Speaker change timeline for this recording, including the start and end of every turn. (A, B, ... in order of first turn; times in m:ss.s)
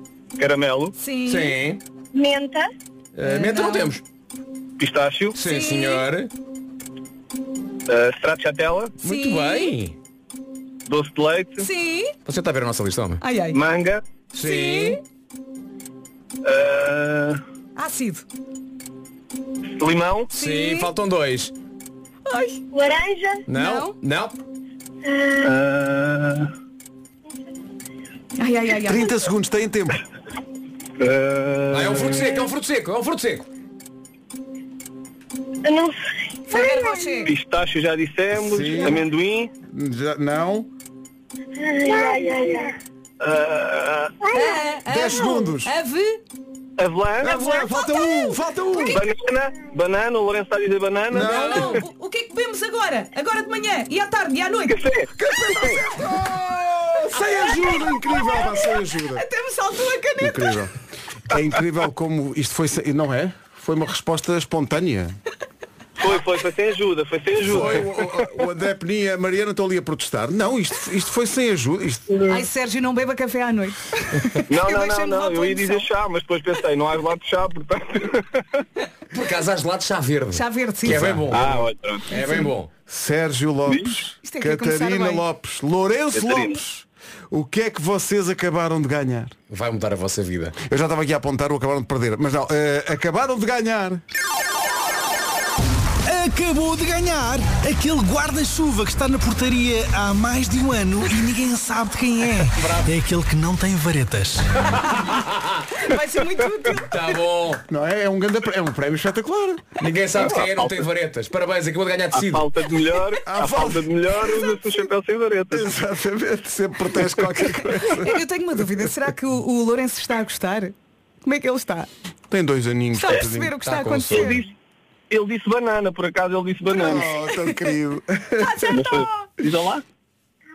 0:00.4-0:00.9 A
0:00.9-0:01.6 B
0:01.2-0:01.8 C
0:02.1-0:02.7 D
0:03.2-0:04.0 C
0:03.2-0:03.9 B
0:04.8-0:05.3 A
0:05.3-0:06.3 C
0:05.4-0:06.0 B
0:07.9-0:08.9 A
0:09.0-0:10.0 C
0:09.0-0:09.7 B
0:10.8-0:11.6 A
0:11.6-0:12.1 B
0:12.2-0:13.2 C
0:13.2-0:13.6 B
0:13.5-0:14.0 A
0:14.3-0:15.0 C
0:14.4-0:15.0 B
0:16.4-0:17.4 A
0:17.8-0:18.2 B
0:19.8-0:20.3 A
0:20.3-0:20.9 B
0:20.3-0:21.5 C
0:22.3-0:22.6 B
0:22.7-0:23.4 D
0:23.5-0:24.4 C
0:23.5-0:24.0 B
0:25.0-0:25.5 D
0:25.4-0:26.5 A
0:28.4-0:29.1 B
0:28.8-0:30.0 E
0:31.0-0:32.2 A
0:31.7-0:33.5 C
0:35.6-0:37.2 D
0:36.5-0:37.3 B
0:37.2-0:39.5 A
0:38.4-0:39.0 E
0:39.7-0:40.7 E
0:41.6-0:42.7 D
0:43.2-0:44.2 A
0:44.2-0:44.6 D
0:44.3-0:46.2 B
0:44.9-0:45.7 E
0:46.8-0:47.4 A
0:47.2-0:49.0 E
0:47.2-0:49.0 B
0:48.9-0:51.7 A
0:51.1-0:51.7 E
0:51.2-0:54.8 B
0:54.7-0:55.8 A
0:55.2-0:59.2 E
0:57.1-1:00.6 B
1:00.2-1:00.7 E
1:01.3-1:05.1 E
1:06.0-1:07.9 A
1:07.4-1:12.1 E
1:12.3-1:15.9 B
1:14.5-1:18.4 A
1:19.1-1:22.7 C
1:20.3-1:21.2 B
1:21.3-1:22.1 A
1:22.1-1:22.5 B
1:22.9-1:29.3 E
1:24.2-1:25.2 B
1:26.1-1:26.6 A
1:29.5-1:30.6 C
1:30.6-1:34.0 E
1:36.0-1:44.6 F
1:42.5-1:42.9 C
1:44.8-1:45.6 C
1:45.7-1:46.9 B
1:46.7-1:47.6 C
1:47.7-1:49.7 E
1:49.8-1:52.5 C
1:50.2-1:50.7 A
1:52.1-1:55.7 A
1:53.2-1:54.0 E
1:55.5-1:58.2 E
1:57.8-2:01.9 B
2:02.3-2:03.6 E
2:02.9-2:04.4 B
2:03.6-2:04.4 C
2:04.1-2:04.5 A
2:05.1-2:07.1 A
2:06.7-2:08.8 E
2:08.4-2:09.3 B
2:08.7-2:09.8 A